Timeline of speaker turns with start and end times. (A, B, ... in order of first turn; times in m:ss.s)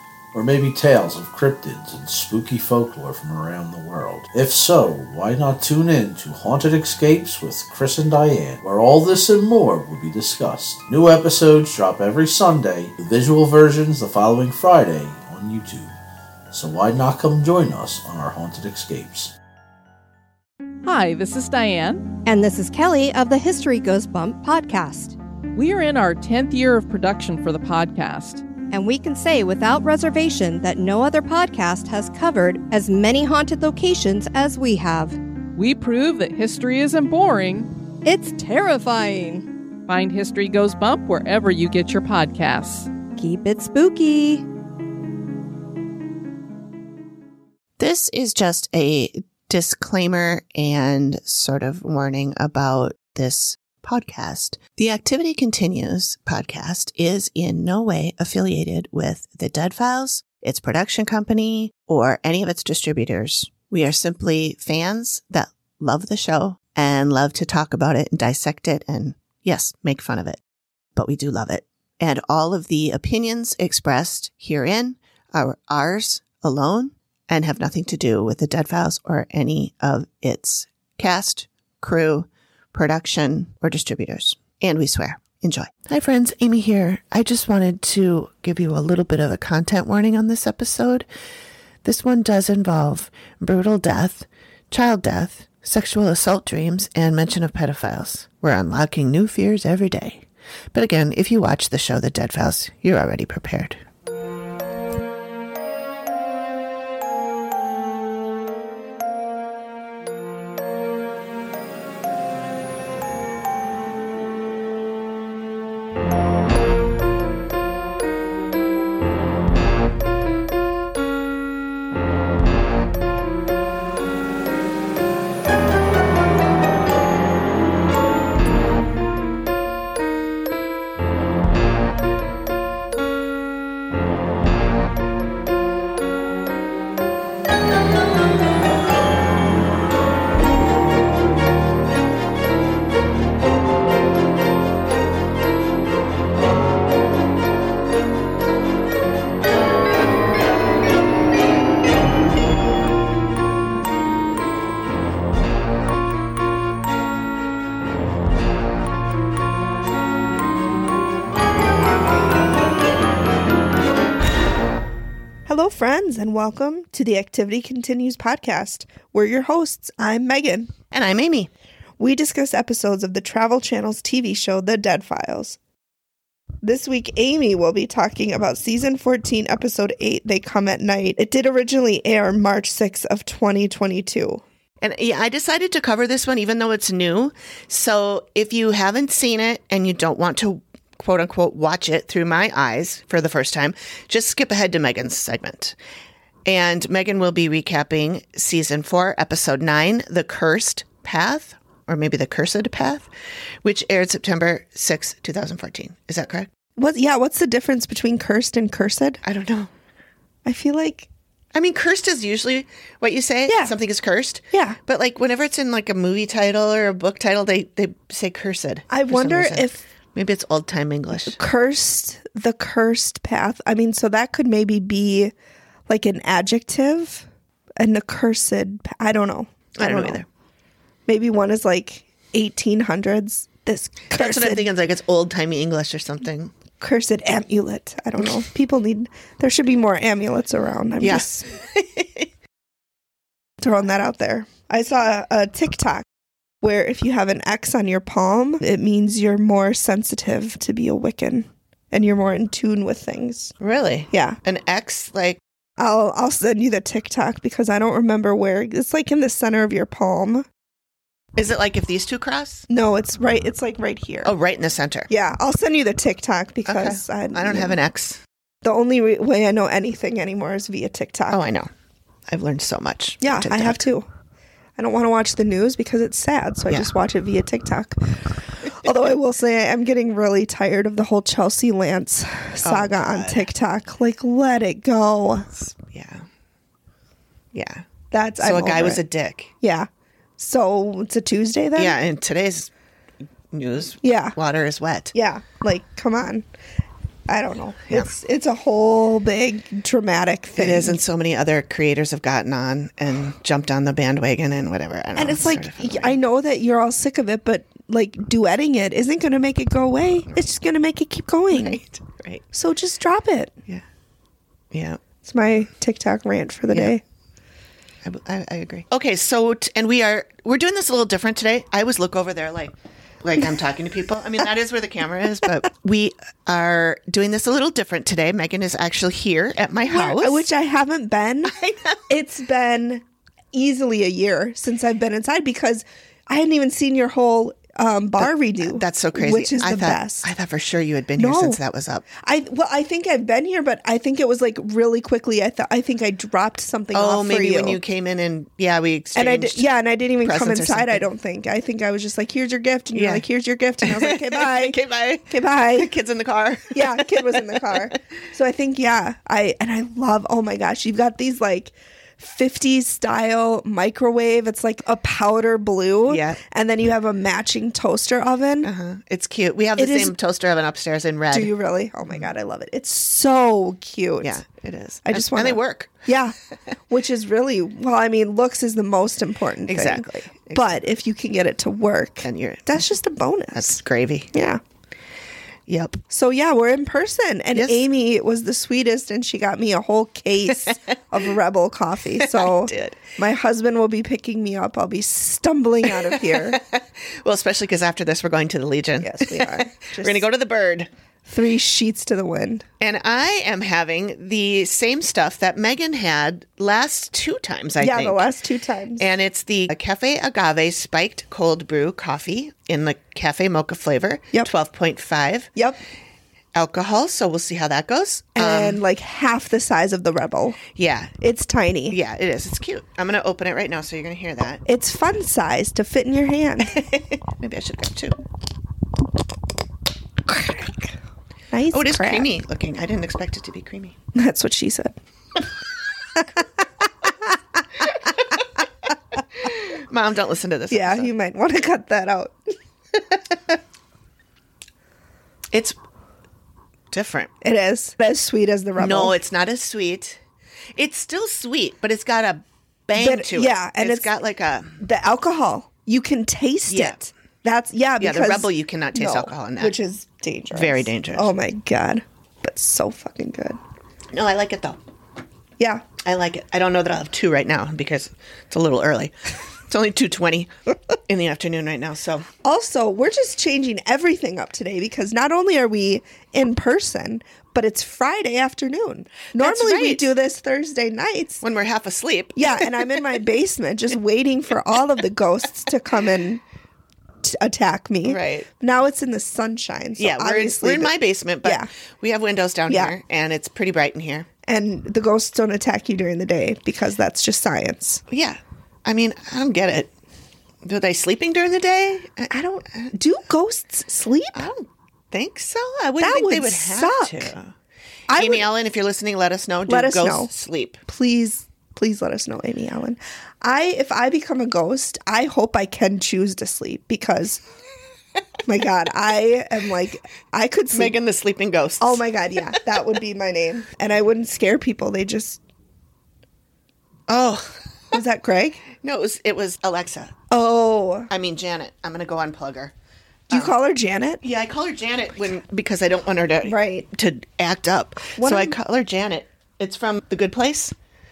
0:00.3-0:15.9 A
0:16.5-0:19.3 A
0:20.8-0:22.1 B
0:22.2-0:25.2 C
0:25.5-0:28.4 B
0:28.7-0:35.2 C
0:35.5-0:37.7 B
0:38.0-0:39.5 C
0:39.9-0:42.9 B
0:43.2-0:44.4 C
0:47.8-1:10.4 D
1:11.0-1:31.0 D
1:31.8-1:43.8 D
2:45.4-2:50.7 E
2:50.9-2:51.5 D
2:52.0-2:55.6 E
2:56.6-3:04.4 E
3:04.8-3:15.8 D
3:16.4-3:23.1 D
3:23.6-3:26.5 D
3:26.8-3:29.2 E
3:29.2-3:29.7 D
3:30.4-3:31.1 E
3:31.5-3:41.4 D
3:33.5-3:33.7 E
3:34.5-3:34.8 E
3:38.9-3:39.8 E
3:41.1-3:45.3 E
3:45.9-3:47.2 E
3:47.8-3:50.2 E
3:49.8-3:50.2 D
3:51.1-3:54.7 E
3:54.1-3:56.5 D
3:56.8-4:01.5 E
4:01.0-4:02.2 D
4:03.6-4:06.0 E
4:06.6-4:13.5 E
4:13.6-4:15.4 D
4:14.1-4:14.4 E
4:15.8-4:20.4 E
4:21.4-4:22.6 D
4:22.7-4:24.3 E
4:24.2-4:25.1 D
4:25.1-4:27.8 E
4:26.6-4:28.2 D
4:28.6-4:31.4 E
4:31.3-4:31.7 D
4:32.3-4:33.8 D
4:33.2-4:34.1 E
4:34.8-4:45.5 E
4:42.6-4:43.5 D
4:45.5-4:46.2 D
4:47.5-4:47.8 D
4:48.1-4:49.0 E
4:48.4-4:49.5 D
4:49.6-4:52.0 E
4:51.8-4:52.7 D
4:53.5-4:55.1 D
4:54.0-4:54.4 E
4:55.1-4:56.4 E
4:57.3-5:01.0 E
5:00.6-5:06.2 D
5:05.1-5:11.8 E
5:11.5-5:12.4 D
5:12.5-5:13.6 E
5:14.7-5:15.0 D
5:15.2-5:17.0 E
5:16.7-5:16.9 D
5:18.0-5:30.5 D
5:29.8-5:31.5 E
5:31.5-5:32.0 D
5:32.1-5:40.3 E
5:38.2-5:42.0 D
5:41.2-5:41.6 E
5:42.2-5:47.8 E
5:46.9-5:49.7 D
5:49.1-5:54.8 E
5:50.2-5:51.1 D
5:52.9-5:53.2 D
5:53.8-5:57.9 D
5:55.3-5:55.9 E
5:56.7-6:08.7 E
6:06.1-6:06.4 D
6:08.6-6:11.5 D
6:09.8-6:10.1 E
6:11.3-6:14.4 E
6:14.2-6:16.1 D
6:15.0-6:16.3 E
6:16.9-6:23.8 E
6:19.7-6:20.8 D
6:22.2-6:22.8 D
6:23.5-6:24.3 D
6:24.3-6:24.6 E
6:25.7-6:26.0 D
6:26.1-6:36.6 E
6:27.5-6:27.8 D
6:32.2-6:33.1 D
6:35.8-6:40.9 D
6:39.0-6:40.3 E
6:41.2-6:42.6 E
6:42.8-6:48.3 D
6:47.8-6:49.0 E
6:49.0-6:55.5 D
6:55.5-6:55.8 E
6:56.5-6:58.8 D
6:58.3-7:00.6 E
7:00.7-7:01.1 D
7:01.2-7:02.0 E
7:01.9-7:04.6 D
7:04.6-7:06.8 E
7:06.6-7:08.2 D
7:10.3-7:10.9 E
7:11.5-7:12.3 E
7:11.7-7:13.9 D
7:14.1-7:14.9 E
7:19.4-7:21.1 D
7:20.7-7:22.5 E
7:25.5-7:25.8 D
7:26.9-7:27.3 D
7:27.4-7:29.2 E
7:28.8-7:30.2 D
7:30.8-7:34.8 D
7:33.0-7:34.1 E
7:34.8-7:43.6 E
7:36.7-7:37.0 D
7:38.0-7:39.8 D
7:40.5-7:41.3 D
7:44.1-7:44.8 D
7:45.6-7:45.8 E
7:46.0-7:50.5 D
7:51.1-7:52.3 D
7:52.4-8:01.4 E
7:59.3-8:00.1 D
8:01.4-8:03.0 D
8:02.4-8:06.4 E
8:07.2-8:11.7 E
8:08.0-8:08.5 D
8:10.0-8:14.3 D
8:12.7-8:12.9 E
8:14.4-8:18.0 E
8:18.1-8:19.9 D
8:20.6-8:22.9 D
8:22.3-8:24.5 E
8:24.3-8:27.5 D
8:26.0-8:27.3 E
8:28.1-8:28.5 E
8:28.1-8:30.8 D
8:29.7-8:30.3 E
8:30.8-8:37.4 E
8:38.4-8:41.0 E
8:40.7-8:42.0 D
8:41.8-8:45.4 E
8:47.1-8:47.6 D
8:47.9-8:48.6 E
8:48.8-8:50.1 D
8:50.3-8:51.1 E
8:51.1-8:52.7 D
8:53.3-8:53.6 D
8:53.3-8:54.2 E
8:54.2-9:00.7 D
8:56.4-8:56.9 E
8:58.2-8:58.5 E